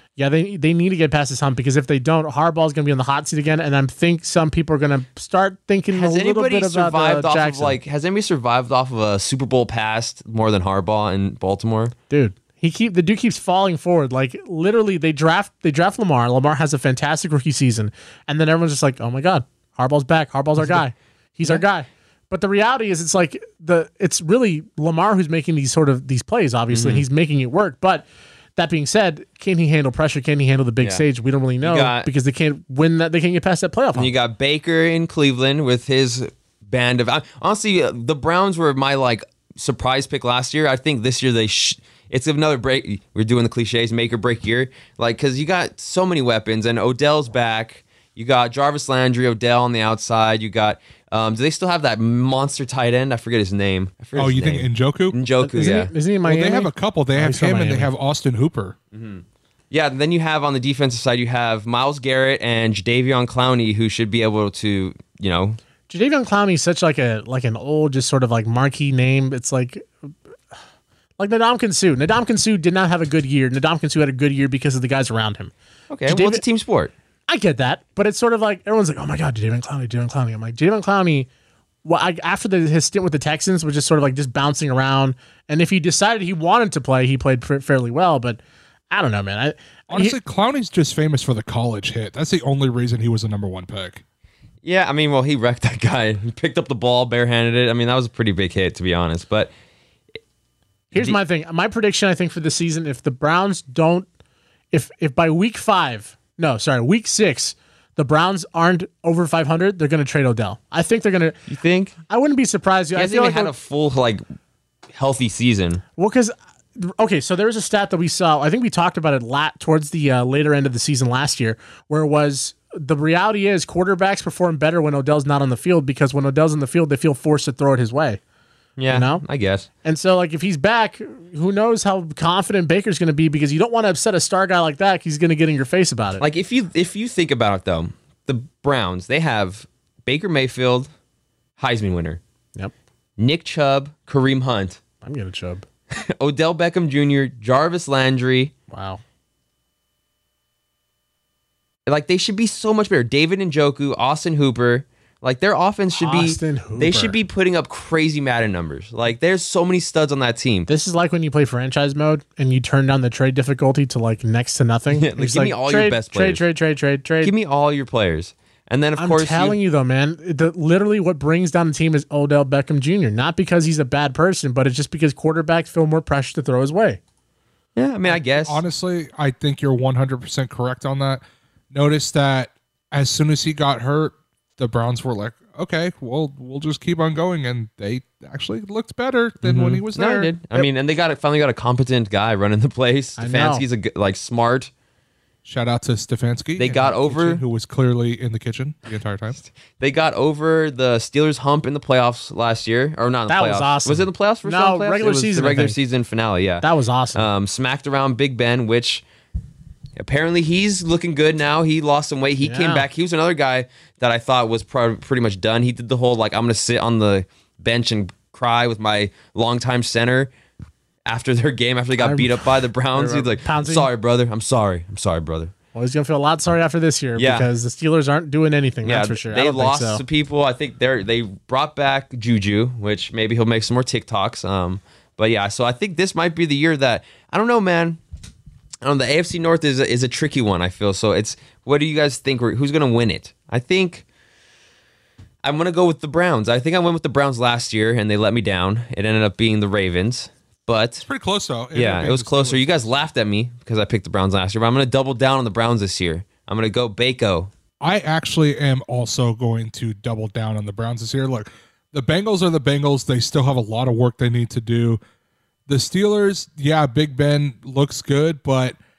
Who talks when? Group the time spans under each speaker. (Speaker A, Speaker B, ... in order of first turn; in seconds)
Speaker A: 0.2-7.8, 12.1-34.1, 55.4-57.9, 65.9-69.9, 71.2-75.5, 76.1-76.4, 77.3-81.3, 81.8-88.4, 88.9-90.2, 100.9-104.1, 104.7-111.4, 112.1-113.5, 116.0-128.2, 128.9-129.2, 129.8-136.2, 145.0-145.6, 148.7-149.0, 156.0-157.2, 160.7-167.3, 169.0-177.0, 193.2-193.6, 203.3-205.8, 206.6-207.3, 212.4-212.9, 222.0-223.9, 225.7-230.0
Speaker B: 5.9-11.9, 26.7-27.0, 31.6-32.1, 33.9-55.9, 58.9-65.6, 75.9-76.9, 94.6-99.5, 111.5-111.9, 112.9-114.2, 114.9-115.8, 128.8-129.7, 136.2-140.9, 141.6-142.2, 143.2-144.8, 145.9-148.5, 151.9-160.7, 164.9-166.4, 167.2-169.6, 177.8-178.6, 189.4-194.7, 196.6-197.4, 199.4-209.0, 210.0-220.3, 221.1-225.5, 227.2-227.5, 228.8-238.0, 238.8-244.0, 245.4-251.0, 251.7-257.5
Speaker C: 54.1-58.8, 89.9-94.0, 178.1-190.7, 195.4-199.4, 251.0-252.9, 257.8-265.0, 265.7-268.8